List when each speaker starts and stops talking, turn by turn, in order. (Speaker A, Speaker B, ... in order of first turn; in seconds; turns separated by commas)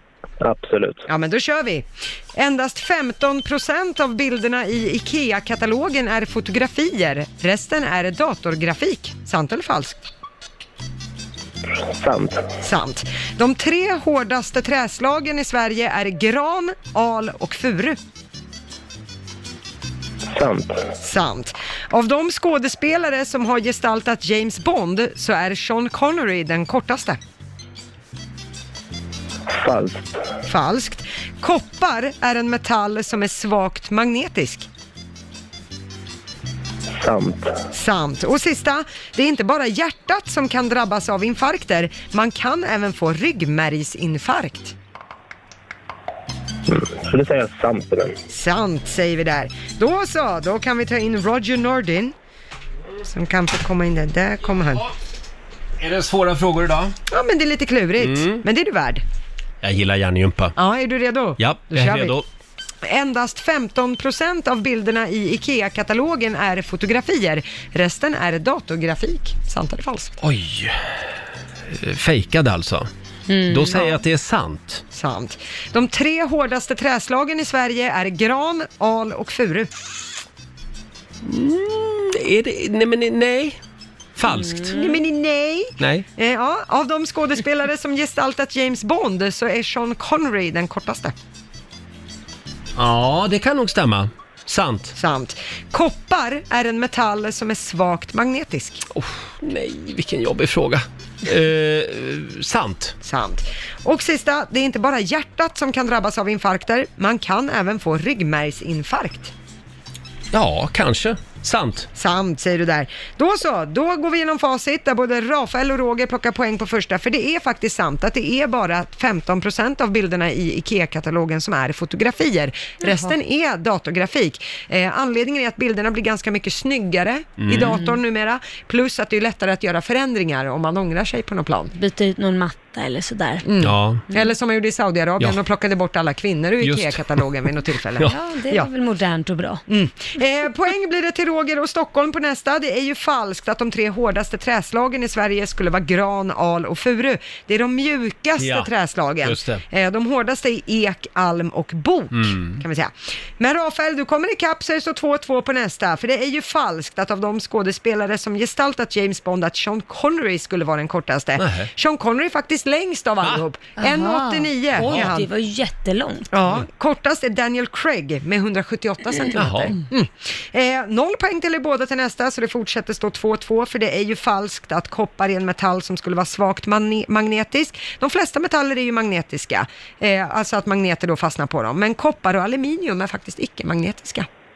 Speaker A: 0.4-1.1, Speaker B: 1.1-10.1, Speaker A: 11.8-12.5, Speaker B: 12.6-18.0, Speaker A: 20.3-20.9, Speaker B: 21.0-27.2, Speaker A: 29.5-30.2, Speaker B: 30.4-34.7, Speaker A: 36.9-37.6, Speaker B: 37.7-44.7, Speaker A: 46.7-48.2, Speaker B: 48.3-52.1, Speaker B: 53.1-54.9, Speaker C: 55.8-57.0, Speaker B: 57.1-59.0, Speaker C: 58.0-58.4, Speaker C: 59.6-60.5, Speaker B: 60.6-62.1, Speaker C: 61.4-62.3, Speaker B: 62.8-70.2, Speaker C: 70.2-71.0, Speaker C: 71.7-72.9, Speaker D: 73.3-73.9, Speaker C: 73.5-74.8, Speaker B: 74.9-79.7, Speaker C: 81.2-83.6, Speaker C: 84.2-84.7, Speaker D: 84.3-85.0, Speaker B: 84.7-91.1, Speaker C: 85.8-86.1, Speaker C: 92.8-95.0, Speaker B: 95.0-98.8, Speaker C: 98.9-103.0, Speaker B: 103.0-109.3, Speaker C: 110.3-111.9, Speaker B: 112.0-131.7, Speaker D: 122.8-123.1, Speaker C: 127.4-127.8, Speaker D: 127.6-128.0, Speaker D: 131.8-133.4, Speaker B: 133.5-138.7, Speaker C: 133.6-134.0, Speaker C: 136.6-137.3, Speaker D: 138.1-139.6, Speaker B: 139.7-165.3, Speaker C: 148.4-148.7, Speaker C: 149.2-149.6, Speaker C: 152.1-152.6, Speaker C: 161.4-161.7, Speaker D: 163.8-166.3, Speaker C: 164.8-165.1, Speaker B: 166.3-184.3, Speaker C: 169.4-169.7